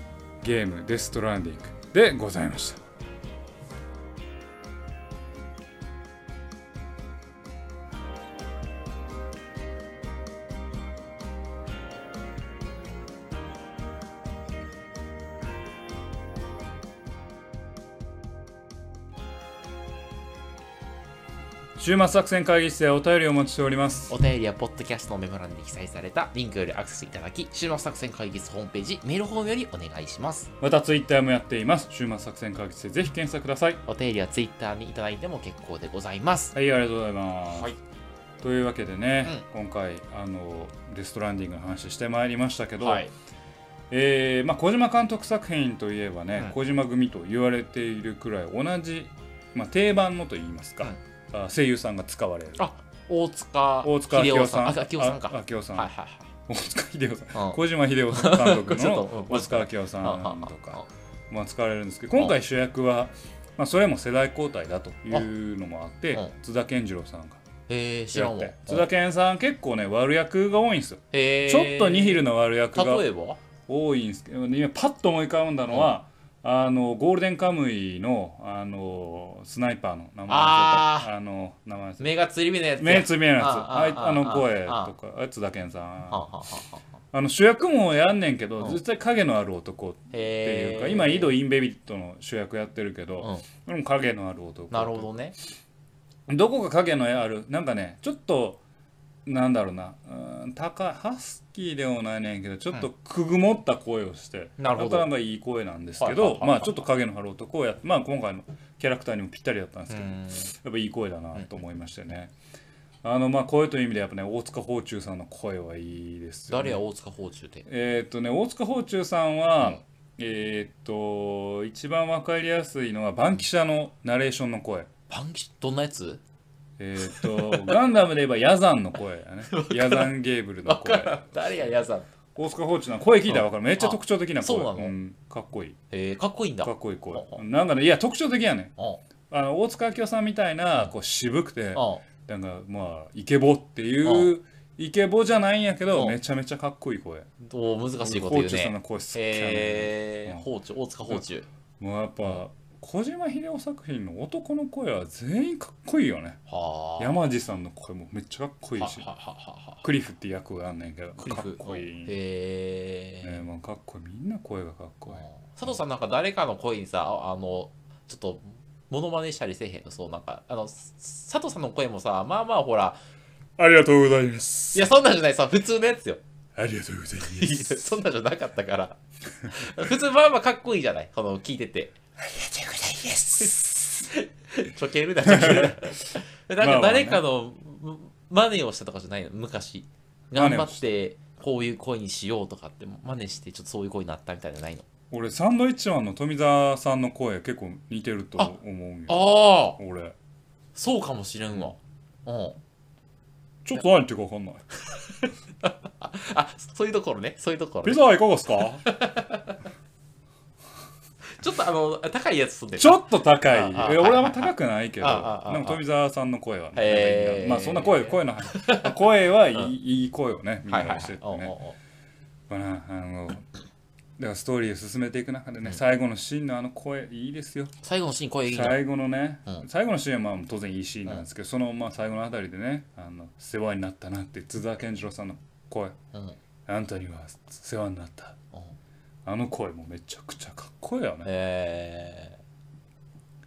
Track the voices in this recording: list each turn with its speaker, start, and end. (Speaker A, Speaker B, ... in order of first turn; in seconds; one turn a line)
Speaker A: 0.4-2.8
Speaker A: 21.8-24.1
Speaker B: 24.1-30.5
Speaker A: 30.6-33.8
Speaker B: 33.9-36.5
Speaker A: 36.5-37.7
Speaker A: 38.4-43.0
Speaker B: 42.8-43.1
Speaker A: 43.9-52.6
Speaker B: 52.6-56.3
Speaker A: 53.8-55.9
Speaker A: 56.5-67.4
Speaker B: 57.3-60.9
Speaker B: 67.7-68.8
Speaker A: 68.1-73.0
Speaker B: 71.1-73.4
Speaker A: 73.7-82.0
Speaker B: 80.3-81.1
Speaker B: 82.0-84.9
Speaker A: 82.8-86.4
Speaker B: 86.1-86.8
Speaker A: 87.1-95.1
Speaker B: 90.1-91.3
Speaker B: 94.7-95.3
Speaker A: 96.3-98.6
Speaker A: 99.2-112.3
Speaker B: 104.6-105.1
Speaker B: 106.0-106.8
Speaker B: 109.9-110.5
Speaker A: 113.0-116.8
Speaker B: 116.5-117.7
Speaker A: 117.7-124.9
Speaker B: 125.1-126.2
Speaker A: 126.8-131.5
Speaker B: 127.0-127.8
Speaker B: 129.5-130.1
Speaker B: 130.6-132.1
Speaker A: 132.3-135.8
Speaker B: 133.3-134.9
Speaker B: 135.9-137.4
Speaker A: 136.6-138.7
Speaker B: 138.8-139.0
Speaker A: 139.3-147.3
Speaker B: 141.7-142.0
Speaker B: 144.0-144.3
Speaker B: 147.4-151.5
Speaker A: 148.0-150.5
Speaker A: 151.8-156.4
Speaker B: 156.5-157.2
Speaker A: 157.0-159.1
Speaker B: 158.8-159.8
Speaker A: 159.8-162.1
Speaker B: 161.2-163.4
Speaker A: 163.2-165.2
Speaker B: 165.1-173.0
Speaker A: 173.6-174.9
Speaker B: 174.7-176.2
Speaker A: 176.6-178.0
Speaker B: 177.2-179.0
Speaker B: 179.5-181.9
Speaker A: 182.2-184.1
Speaker B: 183.3-194.9
Speaker A: 185.2-187.2
Speaker A: 190.3-190.9
Speaker A: 195.1-200.2
Speaker B: 199.1-199.8
Speaker B: 200.7-202.6
Speaker A: 203.6-204.6
Speaker B: 204.9-209.6
Speaker A: 207.8-208.8
Speaker B: 211.3-215.8
Speaker A: 212.8-221.5
Speaker B: 216.7-219.0
Speaker B: 220.7-221.8
Speaker A: 222.5-223.4
Speaker A: 224.2-227.7
Speaker B: 227.8-228.8
Speaker A: 228.5-235.9
Speaker B: 236.1-236.4
Speaker A: 236.7-238.4
Speaker A: 239.2-241.3
Speaker B: 241.2-242.4